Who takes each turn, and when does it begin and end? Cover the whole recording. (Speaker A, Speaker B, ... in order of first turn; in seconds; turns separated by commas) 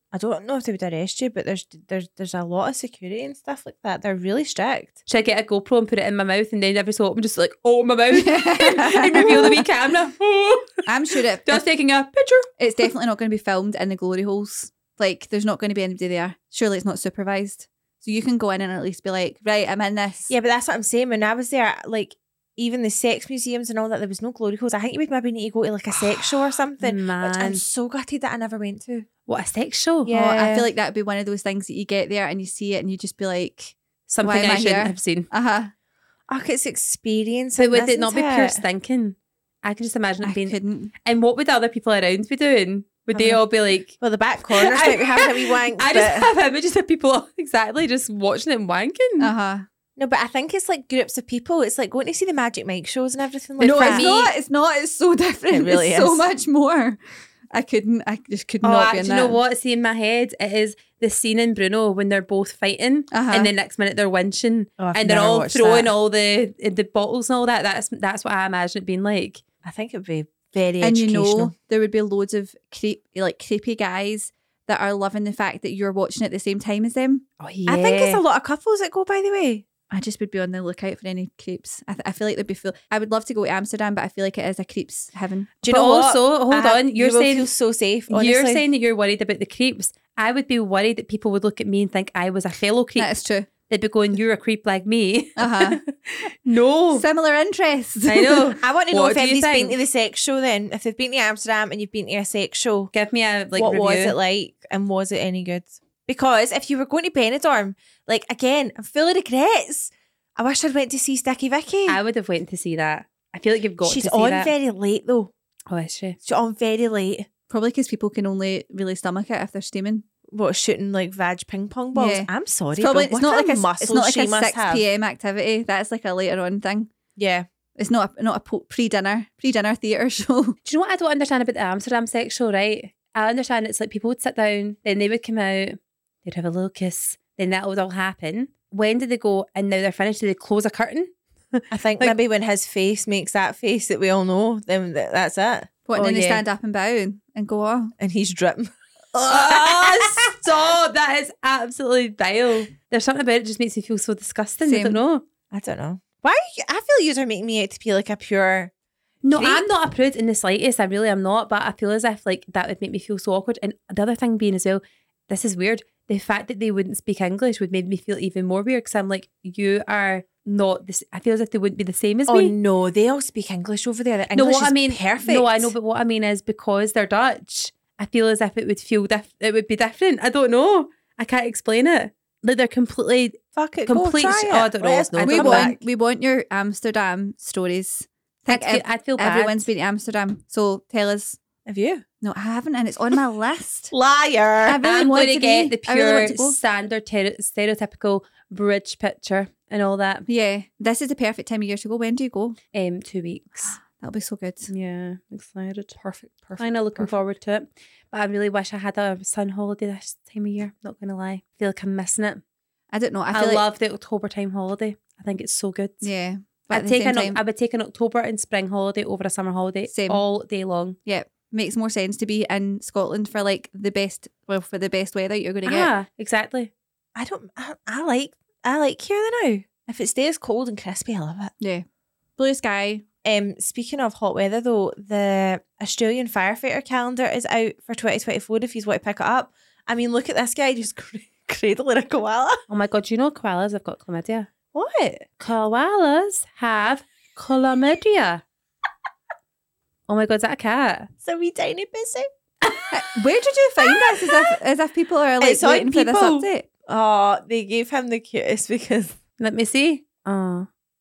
Speaker A: 0.1-5.0, Speaker B: 5.1-10.9, Speaker C: 8.2-9.7, Speaker C: 10.9-11.6, Speaker B: 11.4-12.5, Speaker C: 12.6-20.3, Speaker A: 20.3-29.1, Speaker B: 26.8-27.6, Speaker B: 29.3-30.1, Speaker A: 30.1-30.7, Speaker C: 30.1-35.7, Speaker B: 34.1-35.3, Speaker A: 36.3-38.6, Speaker B: 37.6-44.0, Speaker C: 40.2-40.9, Speaker A: 44.0-46.3, Speaker B: 44.5-49.3, Speaker C: 49.2-49.7, Speaker A: 50.0-54.1, Speaker B: 53.6-54.3, Speaker C: 53.6-57.0, Speaker A: 55.5-56.3, Speaker C: 57.5-59.4, Speaker B: 58.6-69.4, Speaker C: 63.1-63.5, Speaker A: 64.8-65.9, Speaker A: 69.6-71.5, Speaker C: 70.8-77.2, Speaker B: 77.4-78.2, Speaker A: 77.7-79.7, Speaker C: 79.9-85.6, Speaker A: 85.6-88.6, Speaker B: 85.7-87.5, Speaker B: 88.1-93.2, Speaker C: 93.0-93.5, Speaker B: 93.7-97.0, Speaker C: 95.4-95.8, Speaker C: 96.9-98.5, Speaker B: 98.0-99.8, Speaker A: 98.6-102.9, Speaker B: 102.9-104.2, Speaker A: 103.5-112.0, Speaker B: 111.9-114.5, Speaker A: 113.8-115.3, Speaker B: 115.7-116.2, Speaker A: 116.2-117.3, Speaker C: 117.5-120.0, Speaker A: 120.3-124.8, Speaker C: 121.9-126.9, Speaker A: 127.2-127.5, Speaker C: 127.8-130.6, Speaker B: 130.7-142.2, Speaker A: 141.7-145.7, Speaker C: 145.9-147.9, Speaker B: 145.9-146.4, Speaker A: 148.0-150.4, Speaker B: 149.3-155.2, Speaker C: 154.6-155.0, Speaker A: 155.5-158.7, Speaker B: 159.2-172.5, Speaker A: 159.3-159.7, Speaker A: 172.3-175.7, Speaker B: 174.3-185.8, Speaker A: 183.6-185.8, Speaker C: 185.2-191.4, Speaker B: 188.5-189.7, Speaker A: 191.7-192.0, Speaker C: 192.2-193.9, Speaker A: 193.9-194.8, Speaker C: 194.6-196.6, Speaker B: 194.8-200.3, Speaker C: 200.3-202.6, Speaker B: 202.7-203.8, Speaker C: 203.8-204.7, Speaker B: 204.7-206.0, Speaker A: 206.1-206.6, Speaker C: 206.2-206.5, Speaker B: 206.6-212.4, Speaker C: 212.9-213.6, Speaker B: 213.3-216.1, Speaker C: 216.0-217.4, Speaker B: 216.7-221.0, Speaker C: 219.9-220.2, Speaker C: 221.1-225.9, Speaker B: 225.7-226.7, Speaker A: 227.2-231.5, Speaker C: 231.6-231.8, Speaker C: 232.4-233.1, Speaker A: 233.2-242.6, Speaker B: 242.7-244.7, Speaker A: 244.7-245.2, Speaker B: 245.3-248.4, Speaker B: 250.1-251.1, Speaker A: 251.2-252.3, Speaker C: 252.9-256.7, Speaker A: 255.4-259.2, Speaker B: 259.4-260.7